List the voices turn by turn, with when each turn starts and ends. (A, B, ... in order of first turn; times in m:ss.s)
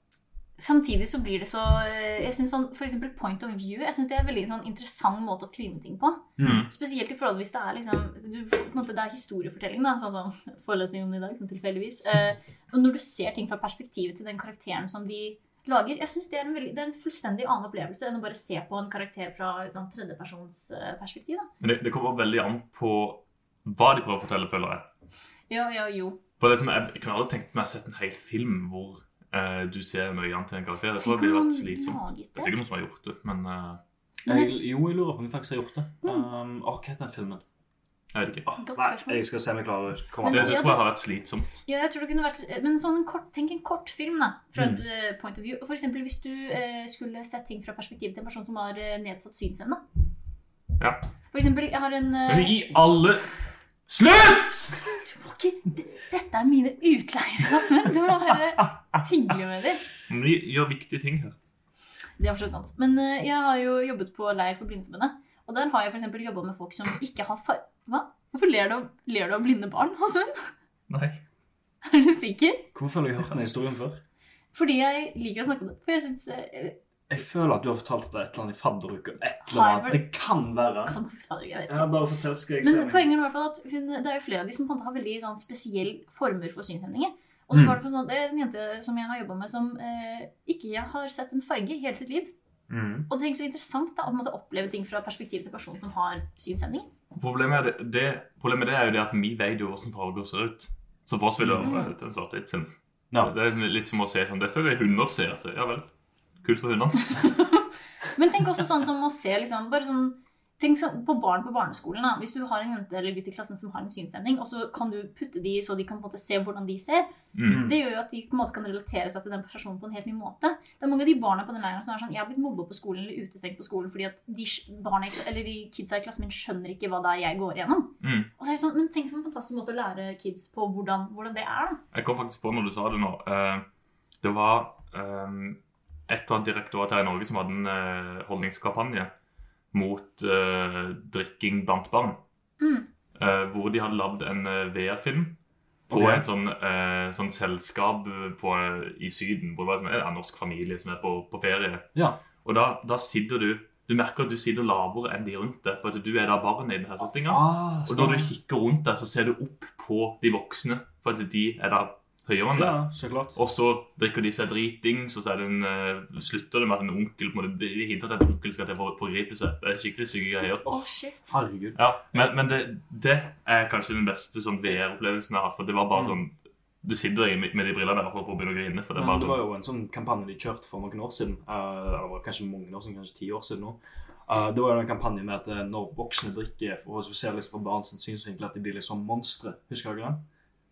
0:00.6-0:21.5 A
0:06.4-0:06.7 B
0:06.4-0:06.7 C
0:21.6-0:24.9 C
0:25.5-0:26.2 A
0:26.4-0:33.8 C
0:31.0-0:32.5 A
0:34.2-0:37.4 B
0:38.1-0:38.5 C
0:38.5-0:40.6 B
0:38.6-0:39.2 A
0:40.2-0:40.9 A
0:40.3-0:41.6 C
0:41.7-0:49.8 A
0:51.3-0:52.6 A
0:52.3-0:53.3 C
0:53.9-0:54.8 C
0:55.0-0:59.8 A
1:00.1-1:01.4 C
1:02.2-1:10.5 A
1:10.9-1:11.2 C
1:11.8-1:12.7 A
1:12.8-1:14.0 B
1:14.5-1:16.8 A
1:17.1-1:21.0 B
1:19.5-1:20.0 A
1:20.9-1:22.0 A
1:21.7-1:23.1 B
1:22.6-1:32.3 A
1:32.7-1:33.1 B
1:33.1-1:36.9 A
1:37.1-1:45.9 C
1:41.4-1:41.7 B
1:41.6-1:41.9 A
1:46.4-1:47.2 C
1:47.1-2:11.8 A
1:57.3-1:57.7 C
1:57.5-1:57.8 B
2:08.0-2:08.3 C
2:11.9-2:13.6 C
2:14.2-2:19.1 C
2:19.7-2:22.2 C
2:22.6-2:22.9 A
2:23.2-2:25.4 C
2:25.9-2:26.2 B
2:25.9-2:31.9 C
2:32.4-2:42.8 C
2:37.3-2:38.3 B
2:42.5-2:43.4 B
2:43.4-2:50.7 C
2:50.6-2:51.2 A
2:51.3-2:52.3 B
2:51.8-2:59.4 C
2:59.0-3:10.2 B